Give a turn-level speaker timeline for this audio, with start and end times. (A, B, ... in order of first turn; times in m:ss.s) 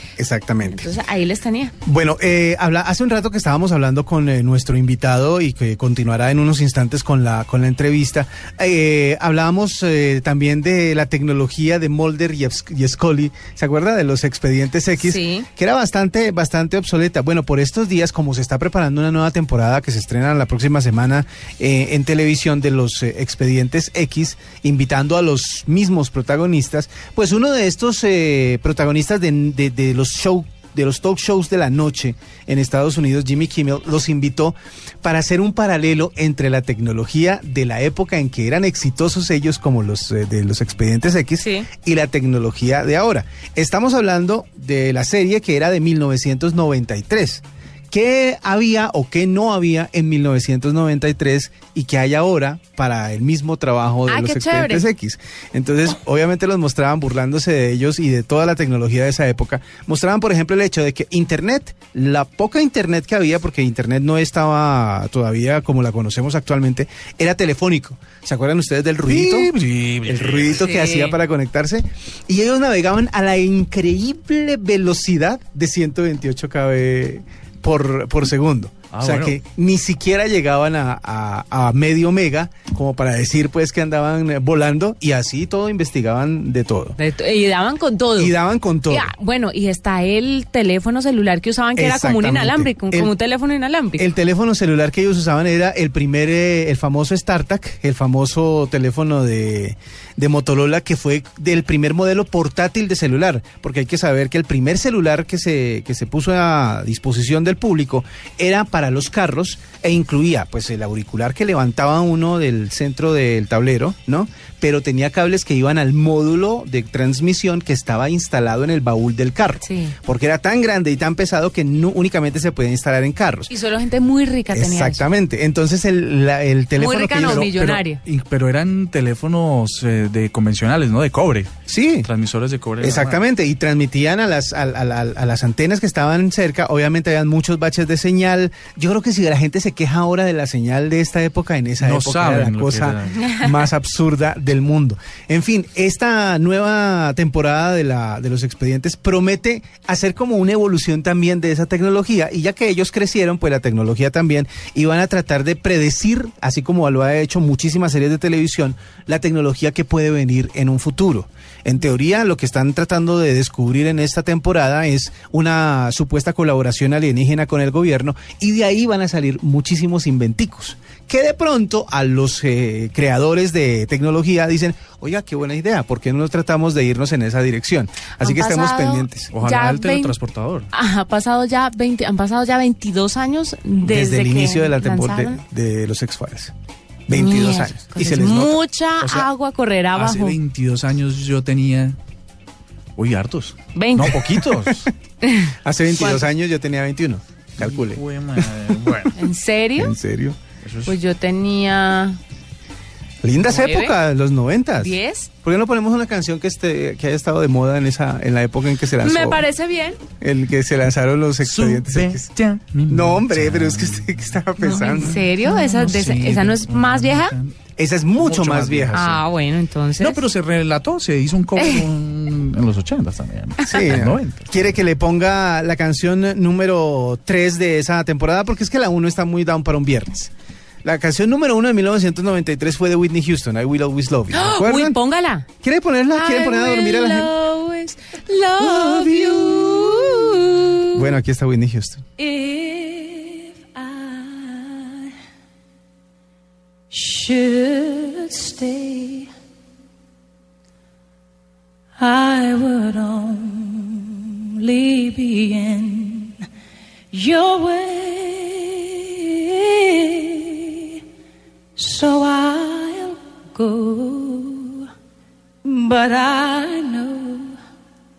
0:00.2-0:00.9 A
0:00.6-0:01.7 B
0:01.8-1:09.5 A
0:15.0-0:15.4 B
0:41.4-0:41.7 B
0:54.1-0:54.8 B
1:09.0-1:10.6 C
1:10.1-1:27.0 A
1:10.6-1:11.2 B
1:18.9-1:19.4 C
1:27.0-1:28.3 B
1:28.2-1:29.1 A
1:28.9-1:34.0 B
1:31.8-1:33.1 A
1:34.0-2:03.5 A
1:59.6-1:59.9 B
2:03.5-2:05.0 B
2:04.5-2:07.5 A
2:06.8-2:08.0 B
2:07.2-2:11.5 C
2:11.7-2:12.1 A
2:12.0-2:13.2 C
2:12.8-2:59.3 A
2:21.8-2:23.4 C
2:58.2-3:00.1 B
2:59.3-3:00.7 C
3:00.7-3:05.4 B
3:03.8-3:06.5 A
3:07.1-3:08.6 A
3:07.1-3:10.4 B
3:09.9-3:12.0 C
3:13.0-3:14.9 C
3:13.7-3:14.2 B
3:15.2-3:16.2 B
3:15.6-3:19.0 A
3:17.6-3:19.1 C
3:19.2-3:20.0 B
3:19.8-3:20.4 A
3:20.6-3:20.9 C
3:20.8-3:22.2 B
3:23.2-3:29.4 A
3:23.5-3:23.9 B
3:24.8-3:25.3 B
3:29.0-3:30.0 B
3:30.2-3:32.3 A
3:31.4-3:34.3 C
3:32.9-3:35.2 A
3:34.6-3:37.3 B
3:35.0-3:37.6 C
3:37.8-3:39.0 A
3:38.2-3:39.2 C
3:38.9-3:40.2 B
3:40.0-3:44.5 C
3:41.6-3:41.9 B
3:43.7-3:50.3 A
3:50.8-3:55.0 A
3:54.3-3:55.4 B
3:55.6-3:57.3 A
3:56.1-4:00.9 B
3:58.7-3:59.4 D
3:58.8-3:59.8 A
4:00.9-4:02.0 A
4:02.2-4:05.1 D
4:06.9-4:09.3 D
4:12.0-4:16.4 D
4:17.1-4:20.9 D
4:21.8-4:24.8 D
4:25.6-4:27.6 D